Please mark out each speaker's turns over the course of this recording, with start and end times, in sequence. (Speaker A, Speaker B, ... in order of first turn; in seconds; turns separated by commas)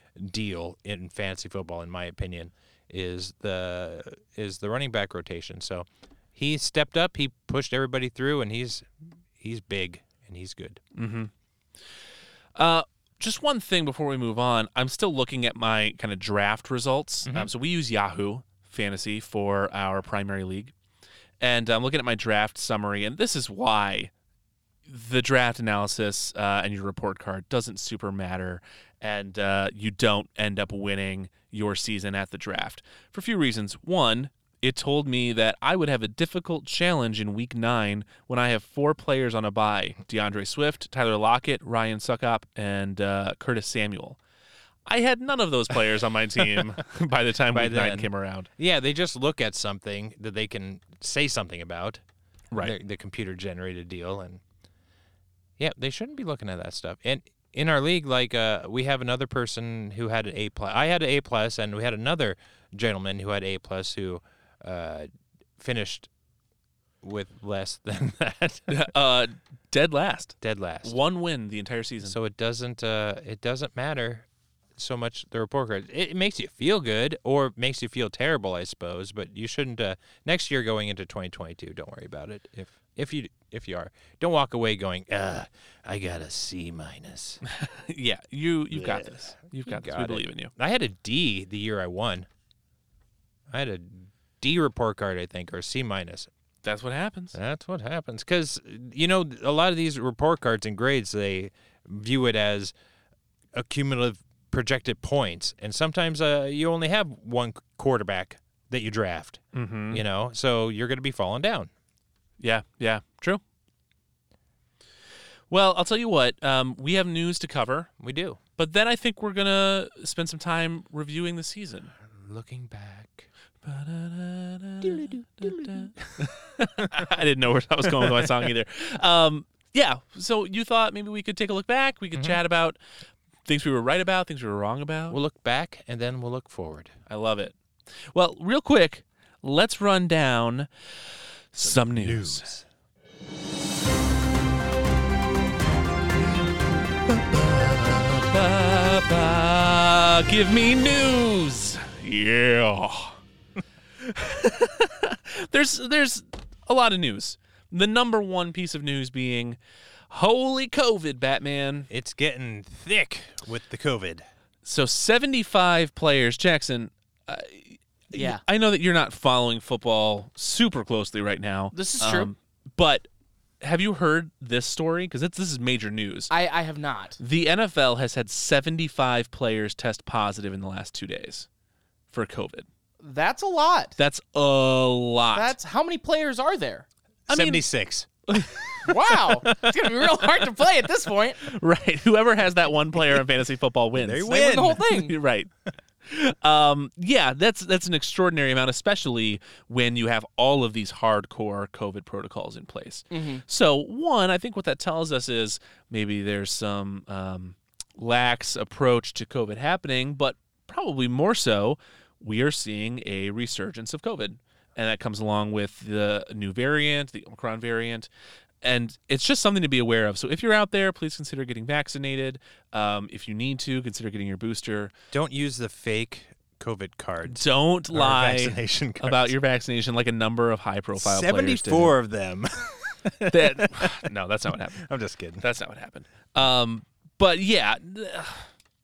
Speaker A: 0.2-10.8, Speaker B: 10.9-11.3, Speaker B: 12.6-20.7, Speaker B: 21.4-24.1, Speaker B: 24.9-44.2, Speaker B: 44.9-48.5, Speaker A: 47.5-52.0, Speaker A: 52.5-54.4, Speaker A: 55.6-66.1, Speaker A: 67.0-68.9, Speaker B: 68.7-72.2, Speaker A: 70.4-71.0, Speaker A: 72.0-87.4, Speaker B: 87.5-90.5, Speaker A: 88.7-92.3, Speaker A: 93.5-96.3, Speaker B: 96.6-97.4, Speaker A: 97.3-102.7, Speaker A: 103.5-111.7, Speaker B: 109.5-110.0, Speaker B: 112.4-113.4, Speaker B: 115.5-117.9, Speaker A: 118.0-118.4, Speaker B: 118.6-121.9, Speaker A: 122.0-123.3, Speaker B: 123.6-132.8, Speaker A: 124.8-126.2, Speaker A: 128.0-128.3, Speaker B: 133.5-135.2, Speaker A: 135.1-136.9, Speaker B: 137.1-137.6, Speaker B: 138.1-140.7, Speaker B: 141.5-142.5, Speaker A: 141.6-142.7, Speaker B: 147.1-153.2, Speaker B: 154.0-159.6, Speaker B: 160.1-161.9, Speaker A: 161.9-164.3, Speaker B: 164.7-173.1, Speaker C: 168.1-168.4, Speaker C: 171.7-172.3, Speaker B: 173.6-176.3, Speaker C: 176.3-177.2, Speaker B: 177.2-181.5, Speaker B: 182.1-182.7, Speaker C: 183.0-183.9, Speaker B: 184.0-185.6, Speaker C: 185.3-186.9, Speaker A: 187.3-188.8, Speaker B: 187.3-187.7, Speaker B: 188.3-188.5, Speaker C: 188.8-191.4, Speaker B: 189.4-190.1, Speaker B: 191.4-195.5, Speaker A: 194.0-194.8, Speaker C: 194.3-195.1, Speaker B: 196.1-218.1, Speaker C: 203.1-203.4, Speaker B: 218.6-224.9, Speaker A: 225.1-229.3, Speaker B: 227.3-231.9, Speaker A: 231.0-234.1, Speaker B: 233.3-234.9, Speaker A: 234.7-235.4, Speaker B: 235.4-238.5